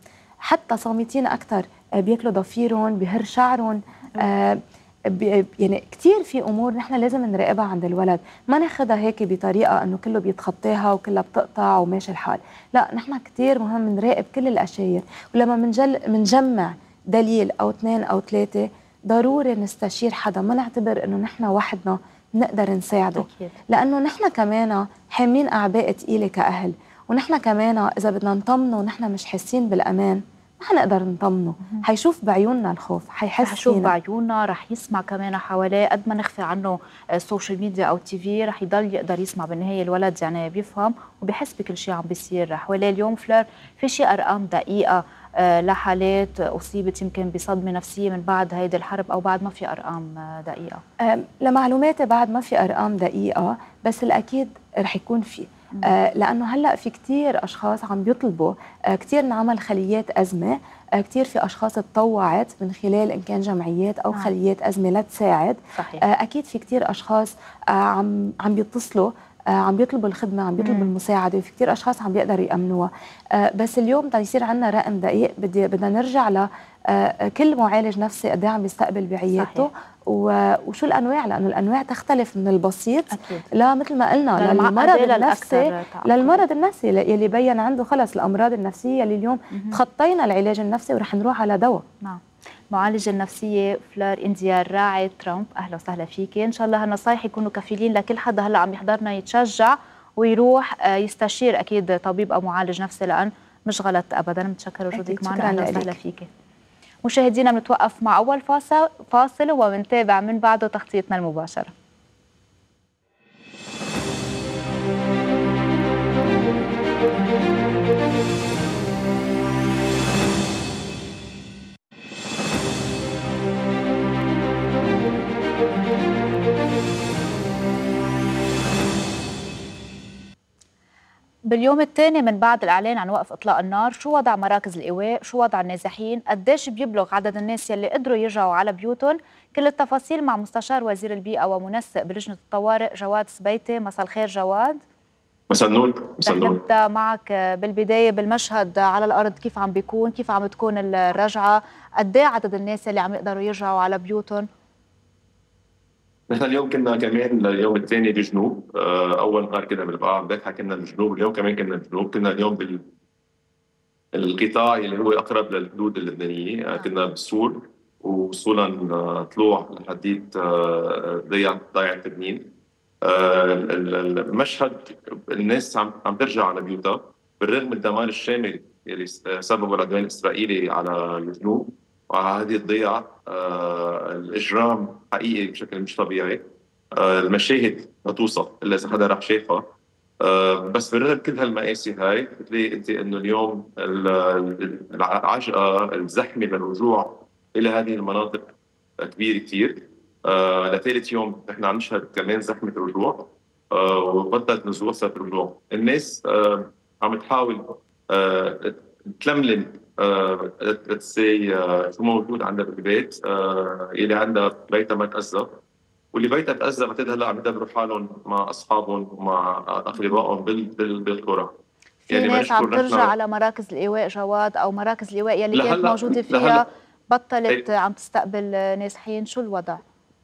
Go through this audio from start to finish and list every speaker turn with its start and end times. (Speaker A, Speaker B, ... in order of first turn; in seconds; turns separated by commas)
Speaker A: 0.4-33.9, Speaker B: 23.2-23.5, Speaker B: 33.4-50.8, Speaker A: 51.0-91.8, Speaker B: 65.7-66.0, Speaker B: 70.6-70.9, Speaker B: 79.4-79.7, Speaker B: 83.1-83.5, Speaker B: 84.3-86.4, Speaker B: 89.5-89.8, Speaker B: 92.7-106.3, Speaker A: 104.9-106.0, Speaker B: 107.0-111.7, Speaker B: 131.5-144.8, Speaker C: 145.5-146.6, Speaker B: 146.2-154.4, Speaker C: 156.3-162.8, Speaker C: 164.1-172.5, Speaker C: 173.0-189.7, Speaker C: 190.2-215.6, Speaker C: 216.1-221.6, Speaker C: 222.1-223.1, Speaker B: 222.1-229.8, Speaker C: 225.5-226.6